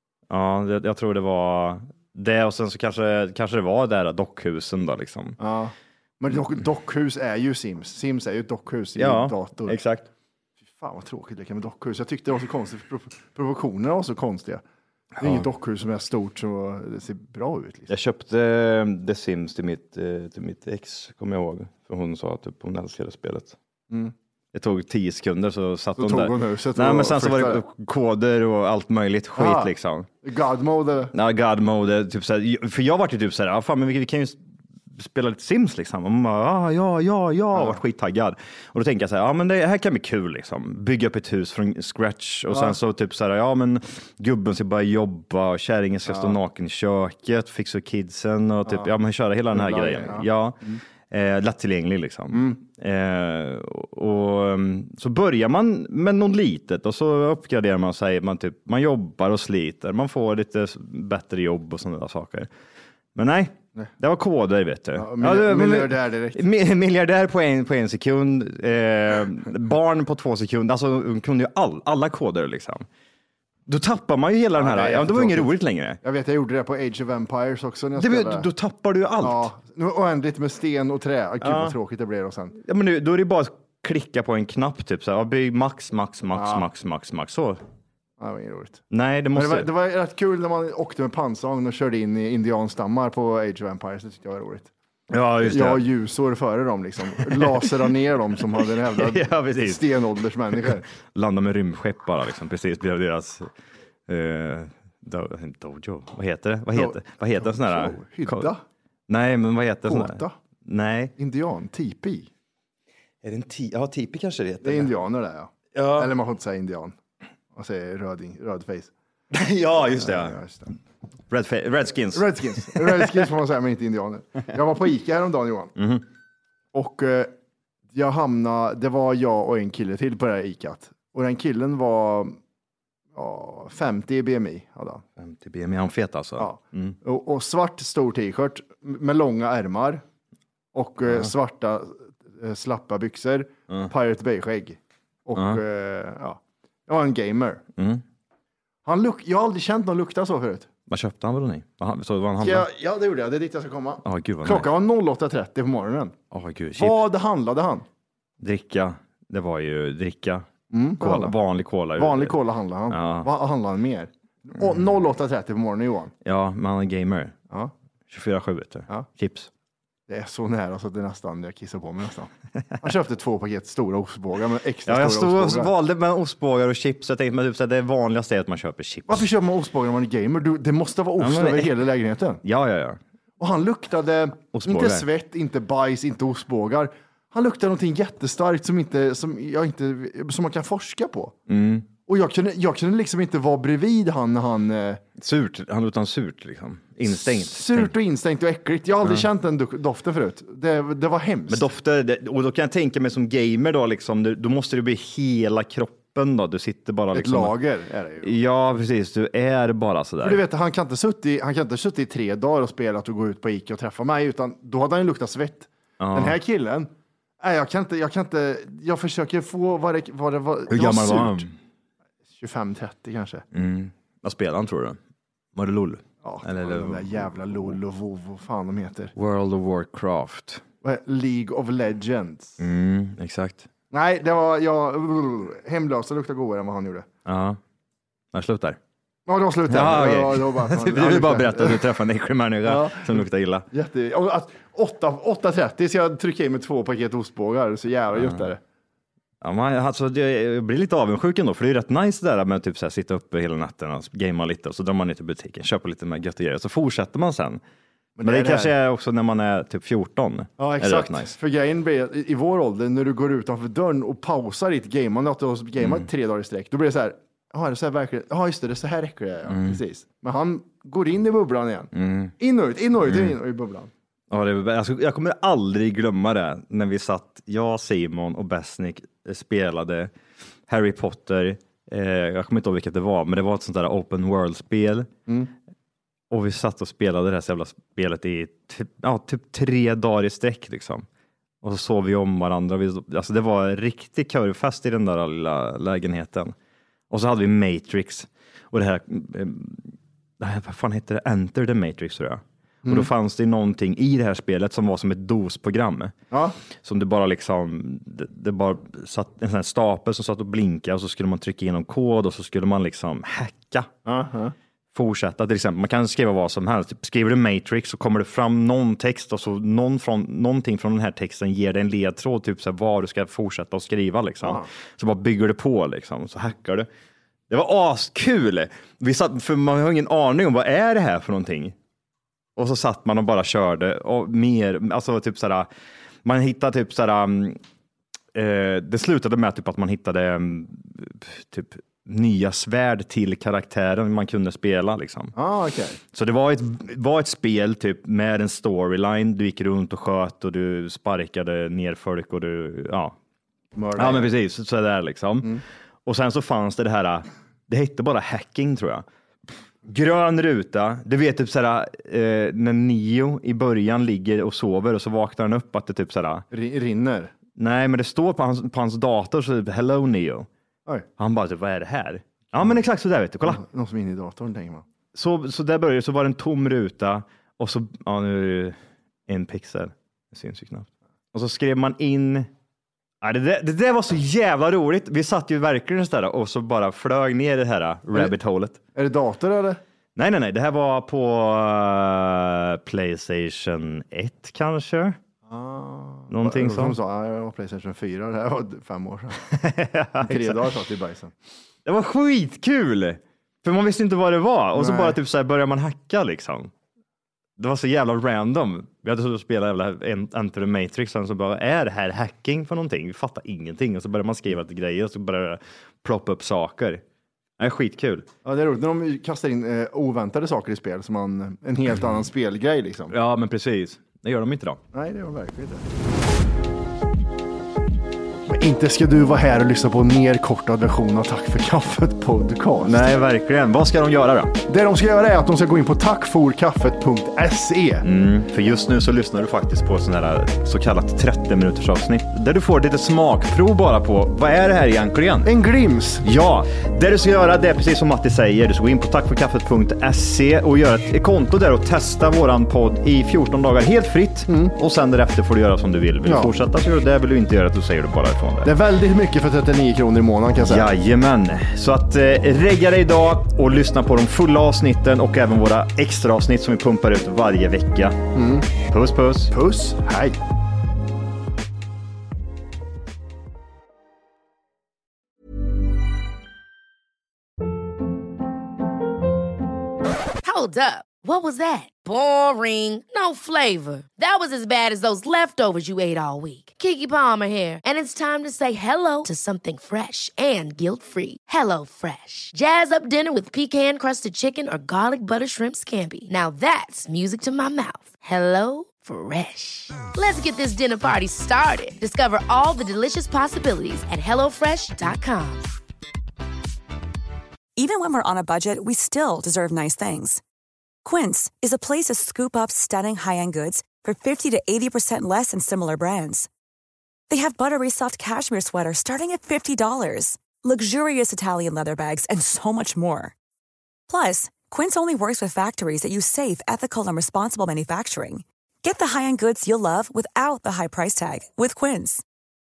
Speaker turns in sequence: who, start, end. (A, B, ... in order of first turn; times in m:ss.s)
0:00.3-0:05.4 A
0:05.4-0:09.8 B
0:09.0-0:10.1 A
0:10.8-0:14.6 B
0:15.2-0:17.9 B
0:17.9-0:23.6 A
0:24.5-0:30.1 A
0:26.0-0:27.6 B
0:29.4-0:31.1 B
0:31.1-0:34.4 A
0:34.9-0:50.6 A
0:37.5-0:37.8 B
0:42.5-0:42.8 B
0:46.1-0:46.4 B
0:48.7-0:48.9 B
0:49.5-0:50.8 B
0:51.1-1:02.5 A
0:52.3-0:52.6 B
1:03.2-1:12.9 A
1:05.0-1:06.4 B
1:13.7-1:16.0 A
1:14.6-1:18.5 B
1:18.0-1:19.5 A
1:19.2-1:22.6 B
1:21.4-1:21.8 A
1:22.6-1:27.6 A
1:26.3-1:26.7 B
1:28.2-1:28.8 B
1:28.9-1:29.7 A
1:29.4-1:34.7 B
1:35.1-1:35.8 A
1:35.4-1:40.8 B
1:39.0-1:39.8 A
1:40.6-1:43.5 A
1:44.1-1:48.5 A
1:46.7-1:48.6 B
1:49.1-1:51.1 A
1:49.8-1:50.4 B
1:51.2-1:52.3 B
1:53.2-1:54.9 A
1:54.6-1:57.0 B
1:55.7-1:56.1 A
1:57.5-1:58.9 B
1:59.3-2:00.4 A
1:59.8-2:00.8 B
2:01.3-2:03.2 A
2:02.1-2:05.7 B
2:05.8-2:06.0 A
2:06.7-2:07.3 B
2:07.9-2:12.4 B
2:13.2-2:15.0 B
2:15.2-2:17.0 A
2:16.4-2:20.0 B
2:20.7-2:27.6 B
2:27.8-2:28.0 A
2:28.8-2:30.7 B
2:30.9-2:32.6 A
2:32.4-2:36.2 B
2:34.0-2:34.7 A
2:36.3-2:37.0 A
2:36.8-2:37.8 B
2:38.4-2:40.5 A
2:40.7-2:41.4 B
2:41.0-2:42.4 A
2:42.0-2:46.1 B
2:42.9-2:43.3 A
2:46.2-2:47.3 A
2:48.1-2:49.5 A
2:50.1-2:55.7 B
2:54.9-2:59.3 A
2:59.1-3:02.4 B
3:01.2-3:01.7 A
3:02.5-3:03.0 A
3:03.4-3:11.3 B
3:04.5-3:05.1 A
3:11.5-3:11.9 A
3:12.0-3:15.0 B
3:15.2-3:17.9 A
3:17.1-3:21.6 B
3:21.5-3:27.6 A
3:27.1-3:28.4 B
3:28.2-3:30.4 A
3:30.2-3:41.5 B
3:36.0-3:36.4 A
3:40.7-3:41.5 A
3:42.4-3:43.4 B
3:43.5-3:45.0 A
3:45.6-3:47.8 A
3:46.2-3:49.1 B
3:49.2-3:50.6 A
3:50.8-3:52.6 B
3:52.6-3:53.7 A
3:53.9-3:57.1 B
3:57.3-3:57.6 A
3:58.3-3:58.8 A
3:59.3-4:02.0 B
3:59.7-4:03.6 A
4:02.6-4:08.6 B
4:08.2-4:08.5 A
4:09.4-4:17.6 A
4:18.2-4:18.8 B
4:18.2-4:21.3 A
4:20.6-4:33.9 B
4:29.5-4:29.7 A
4:31.9-4:32.3 A
4:34.3-4:40.1 A
4:40.7-4:45.1 A
4:45.3-4:45.5 B
4:46.3-4:51.1 A
4:51.6-4:56.5 A
4:57.1-5:06.1 A
5:02.8-5:03.1 B
5:06.3-5:06.6 B
5:06.8-5:13.9 A
5:14.1-5:14.5 B
5:14.9-5:26.9 A
5:24.4-5:24.7 B
5:27.5-5:31.8 A
5:32.6-5:35.7 A
5:36.2-5:37.6 A
5:38.4-5:45.4 A
5:45.4-5:46.0 B
5:46.1-5:53.2 A
5:53.8-5:54.4 B
5:54.0-5:59.0 A
5:59.8-6:06.4 A
6:06.5-6:07.3 B
6:07.6-6:10.5 A
6:11.2-6:13.6 A
6:13.4-6:14.8 B
6:15.2-6:18.8 A
6:19.3-6:22.5 A
6:23.2-6:28.8 A
6:29.0-6:29.8 B
6:30.2-6:35.2 A
6:35.5-6:39.4 B
6:36.3-6:37.0 A
6:39.4-6:40.7 A
6:40.2-6:41.3 B
6:41.9-6:46.7 A
6:44.8-6:45.2 B
6:47.6-6:57.0 A
6:57.6-6:58.3 A
6:58.4-7:03.1 B
7:03.1-7:04.8 A
7:04.9-7:05.9 B
7:08.5-7:13.2 B
7:12.8-7:14.6 A
7:14.7-7:18.1 B
7:18.0-7:25.5 A
7:25.4-7:26.2 B
7:26.2-7:38.7 A
7:34.5-7:34.8 B
7:36.2-7:36.6 B
7:38.6-7:40.9 B
7:40.7-7:48.2 A
7:48.3-7:48.7 B
7:48.9-7:49.5 A
7:49.5-7:50.4 B
8:00.4-8:25.7 C
8:27.8-8:30.4 D
8:31.0-8:36.5 D
8:37.3-8:43.4 D
8:44.1-8:52.2 D